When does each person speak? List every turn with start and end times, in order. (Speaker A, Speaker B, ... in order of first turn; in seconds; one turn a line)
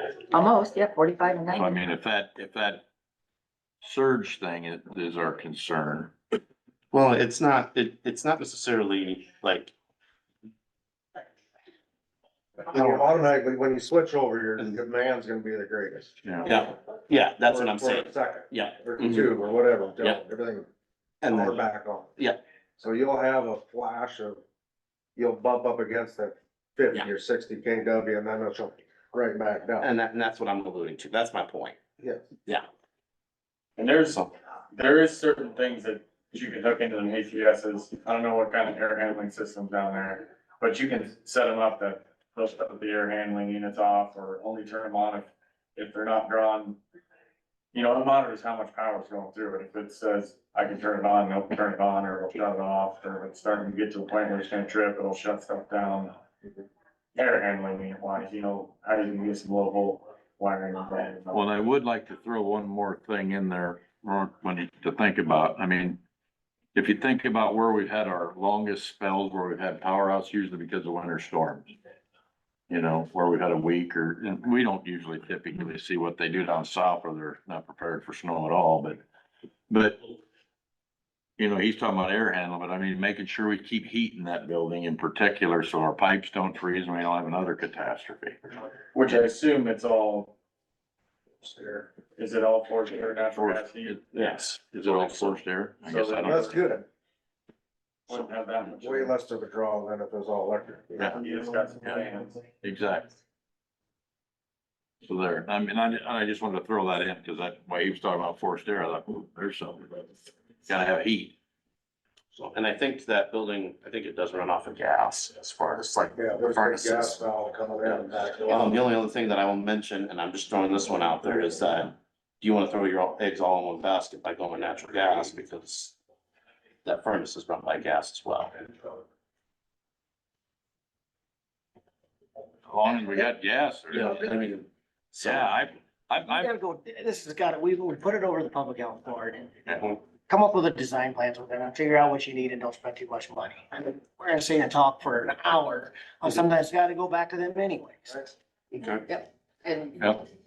Speaker A: 0.3-1.8
Speaker B: 1.5-2.8
Speaker B: 3.8-6.1
Speaker C: 6.9-9.7
Speaker D: 12.7-16.1
Speaker C: 12.7-13.0
Speaker B: 16.2-16.5
Speaker C: 16.4-19.3
Speaker D: 17.4-20.6
Speaker C: 21.2-21.6
Speaker D: 21.2-22.1
Speaker D: 22.8-24.4
Speaker D: 25.1-29.9
Speaker C: 29.8-31.8
Speaker D: 32.0-32.3
Speaker E: 33.8-46.8
Speaker E: 47.7-56.2
Speaker E: 57.1-61.5
Speaker B: 61.3-66.0
Speaker B: 66.7-71.7
Speaker B: 72.7-79.0
Speaker B: 79.7-80.1
Speaker B: 81.4-88.4
Speaker E: 88.9-90.3
Speaker E: 91.4-94.2
Speaker B: 93.3-94.0
Speaker C: 94.1-95.4
Speaker B: 94.6-96.6
Speaker E: 95.9-96.4
Speaker D: 96.2-96.8
Speaker E: 98.1-99.1
Speaker D: 98.8-101.2
Speaker E: 101.1-102.4
Speaker B: 102.6-103.2
Speaker B: 105.0-110.1
Speaker B: 110.7-111.3
Speaker C: 112.3-117.2
Speaker D: 116.1-118.8
Speaker C: 117.8-125.9
Speaker C: 126.8-128.9
Speaker B: 132.7-134.4
Speaker C: 133.9-135.6
Speaker B: 135.2-136.5
Speaker F: 136.2-148.3
Speaker C: 139.7-140.0
Speaker C: 148.7-149.0
Speaker A: 149.1-150.0
Speaker B: 150.0-150.2